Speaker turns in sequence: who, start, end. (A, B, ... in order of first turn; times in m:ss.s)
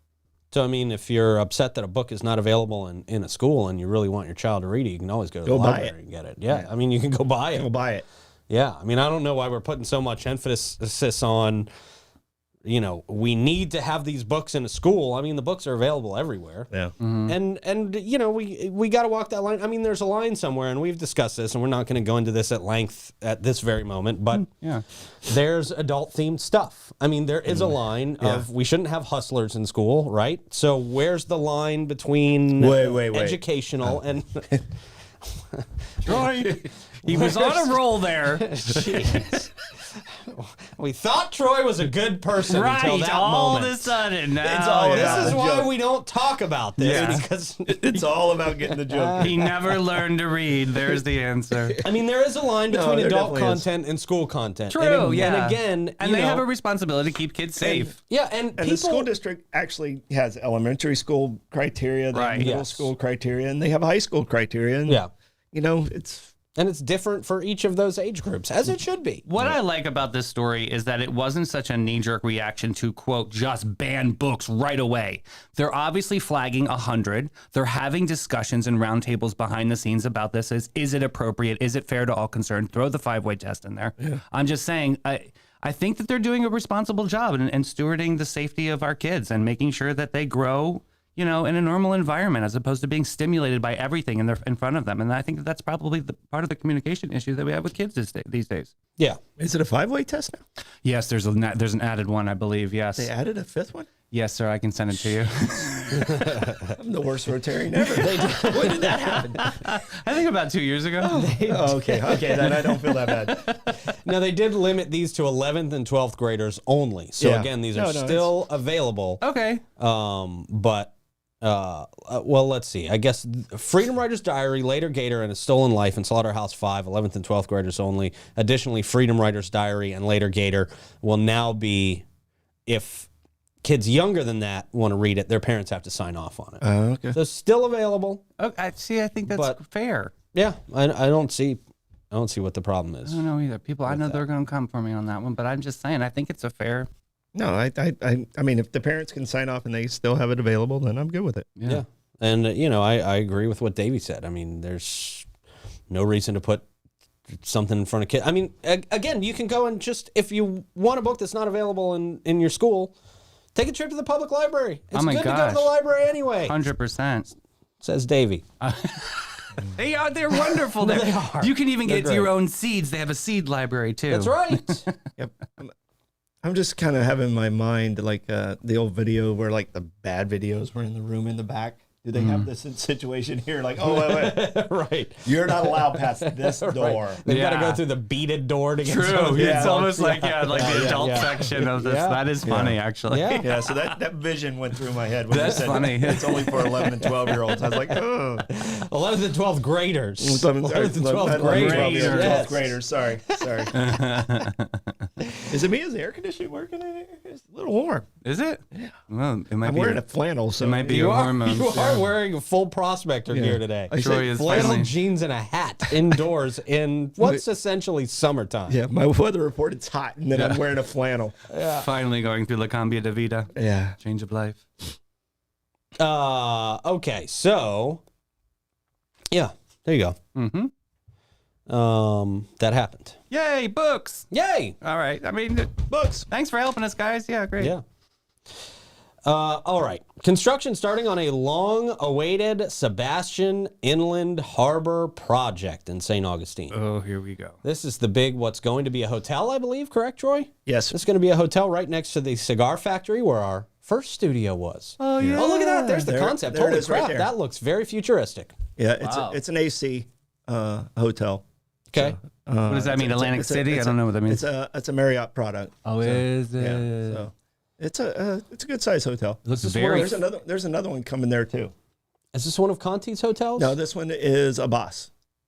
0:00.5-0:07.7 A
0:05.4-0:06.0 B
0:07.5-0:08.0 B
0:08.5-0:11.7 A
0:12.6-0:16.7 A
0:17.0-0:17.4 C
0:17.3-0:24.5 A
0:24.3-0:24.8 C
0:25.2-0:34.6 A
0:27.5-0:28.5 B
0:32.6-0:34.0 B
0:35.5-0:36.3 A
0:36.0-0:39.4 C
0:37.0-0:44.0 A
0:42.4-0:45.4 C
0:44.4-0:45.8 B
0:44.9-0:48.0 A
0:46.8-0:47.2 C
0:46.9-0:49.9 B
0:48.7-0:49.3 A
0:49.2-0:51.8 C
0:51.8-0:56.4 A
0:52.7-0:53.7 B
0:54.7-0:58.0 C
0:57.6-0:57.9 B
0:58.1-0:59.1 A
0:58.6-1:06.3 B
1:02.1-1:02.5 C
1:02.4-1:02.9 A
1:06.6-1:09.6 A
1:09.3-1:38.8 C
1:39.4-1:40.4 B
1:40.8-1:43.1 C
1:43.0-1:43.9 B
1:44.1-1:46.2 C
1:46.0-1:46.8 A
1:46.8-1:49.5 B
1:48.0-1:49.1 A
1:49.1-1:51.3 C
1:51.0-1:53.4 B
1:51.0-1:52.6 A
1:52.4-1:53.6 C
1:53.3-1:59.2 A
1:57.2-1:58.3 B
1:59.2-1:59.6 C
1:59.8-2:12.0 A
2:12.7-2:13.1 A
2:13.6-2:18.2 A
2:16.6-2:17.2 B
2:18.4-2:20.1 C
2:19.3-2:19.6 A
2:20.3-2:23.2 A
2:23.0-2:26.9 C
2:23.9-2:24.2 A
2:27.3-2:31.5 B
2:31.6-2:31.8 C
2:31.7-2:35.3 A
2:35.9-2:36.7 A
2:37.3-2:42.9 A
2:43.6-2:46.6 A
2:44.9-2:45.7 C
2:46.4-2:47.3 C
2:47.8-2:48.4 A
2:48.6-2:55.0 C
2:50.3-2:52.3 A
2:54.1-2:54.9 A
2:55.2-2:55.7 B
2:56.4-3:04.6 B
3:02.2-3:02.5 C
3:03.8-3:12.3 A
3:05.2-3:07.2 B
3:07.3-3:07.8 C
3:08.8-3:14.0 C
3:09.2-3:10.0 B
3:10.5-3:11.2 B
3:12.4-3:12.8 B
3:13.1-3:13.5 A
3:13.4-3:18.5 B
3:15.3-3:16.5 C
3:15.3-3:22.8 A
3:20.2-3:24.0 B
3:21.4-3:22.5 C
3:23.3-3:23.7 A
3:23.7-3:24.9 C
3:25.4-3:28.1 B
3:28.2-3:30.0 C
3:29.6-3:31.2 B
3:30.6-3:32.1 C
3:30.9-3:38.8 A
3:33.3-3:34.8 B
3:34.0-3:34.9 C
3:38.7-3:41.4 B
3:40.3-3:40.7 C
3:41.5-3:41.9 A
3:41.7-3:44.6 C
3:43.6-3:44.0 B
3:46.0-3:48.0 A
3:49.3-3:50.2 A
3:50.4-3:50.7 C
3:51.7-3:53.2 A
3:53.3-3:54.3 C
3:54.3-3:54.8 A
3:54.8-3:57.8 C
3:55.9-3:56.3 B
3:59.2-4:06.8 A
4:06.7-4:07.6 C
4:07.6-4:18.6 A
4:10.7-4:11.0 B
4:15.0-4:16.1 C
4:15.2-4:17.3 B
4:18.8-4:21.4 B
4:19.0-4:19.4 C
4:21.9-4:22.2 A
4:22.0-4:31.7 B
4:22.7-4:24.5 C
4:25.8-4:27.2 C
4:29.5-4:30.2 C
4:29.6-4:30.2 A
4:32.3-4:33.8 A
4:33.6-4:35.1 B